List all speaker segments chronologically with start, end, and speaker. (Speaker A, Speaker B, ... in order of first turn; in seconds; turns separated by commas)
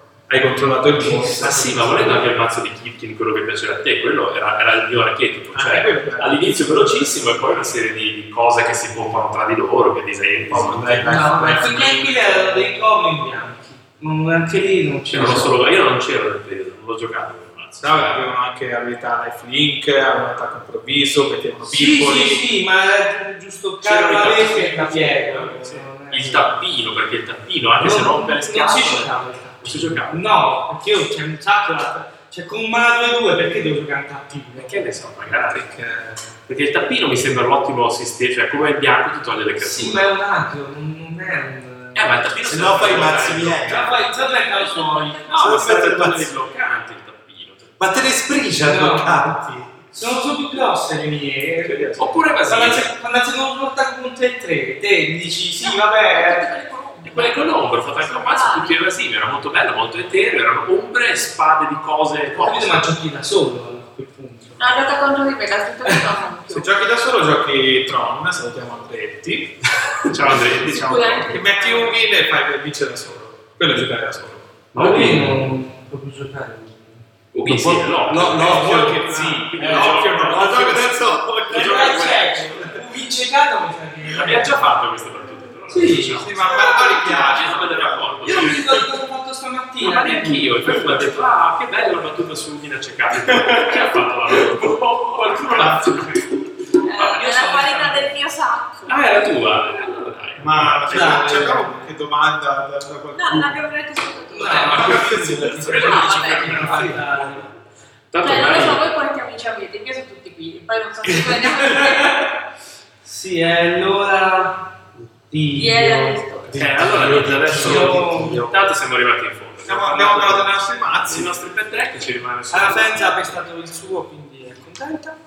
Speaker A: 0.3-1.5, Speaker B: 0.9-2.3, Speaker C: 1.4-11.9, Speaker A: 5.5-7.6, Speaker A: 10.5-12.7, Speaker B: 11.1-15.6, Speaker C: 15.1-18.3, Speaker A: 17.8-22.4, Speaker B: 21.7-26.5, Speaker C: 23.8-24.7, Speaker A: 24.3-25.9, Speaker C: 26.1-30.2, Speaker B: 27.8-34.8, Speaker C: 34.5-35.7, Speaker A: 35.4-36.3, Speaker C: 36.5-40.1, Speaker B: 39.6-42.2, Speaker C: 42.0-44.0, Speaker D: 42.5-43.9, Speaker B: 43.6-45.3, Speaker E: 43.8-45.5, Speaker C: 45.3-47.7, Speaker D: 45.4-46.4, Speaker D: 47.8-49.8, Speaker B: 48.6-49.3, Speaker B: 49.9-56.5, Speaker A: 51.6-52.2, Speaker C: 52.0-52.9, Speaker E: 55.6-58.8, Speaker C: 57.0-62.9, Speaker B: 62.3-64.6, Speaker E: 64.6-66.7, Speaker A: 66.5-69.5, Speaker C: 70.0-71.4, Speaker E: 70.5-72.0, Speaker A: 71.3-74.5, Speaker C: 74.7-75.4, Speaker B: 74.7-77.0, Speaker C: 77.3-80.9, Speaker D: 77.5-79.1, Speaker A: 78.2-81.0, Speaker D: 79.6-82.2, Speaker B: 81.5-84.7, Speaker C: 81.5-82.8, Speaker C: 84.1-88.6, Speaker B: 85.7-86.5, Speaker A: 85.9-88.5, Speaker E: 86.5-87.1, Speaker B: 88.2-90.7, Speaker C: 89.8-96.3, Speaker A: 93.3-93.7, Speaker A: 95.4-96.3, Speaker B: 96.8-98.1, Speaker E: 96.8-99.0, Speaker C: 98.9-101.6, Speaker A: 100.4-103.6, Speaker B: 100.9-101.9, Speaker E: 103.1-106.9, Speaker B: 104.3-107.5, Speaker A: 104.5-107.0, Speaker C: 105.6-107.2, Speaker C: 108.1-108.8, Speaker E: 108.2-112.4, Speaker B: 111.6-112.2, Speaker B: 113.0-114.7, Speaker B: 115.3-116.2, Speaker E: 115.5-116.6, Speaker D: 116.5-118.6, Speaker C: 116.5-123.4, Speaker B: 117.5-118.5, Speaker A: 119.6-121.3, Speaker B: 122.5-125.2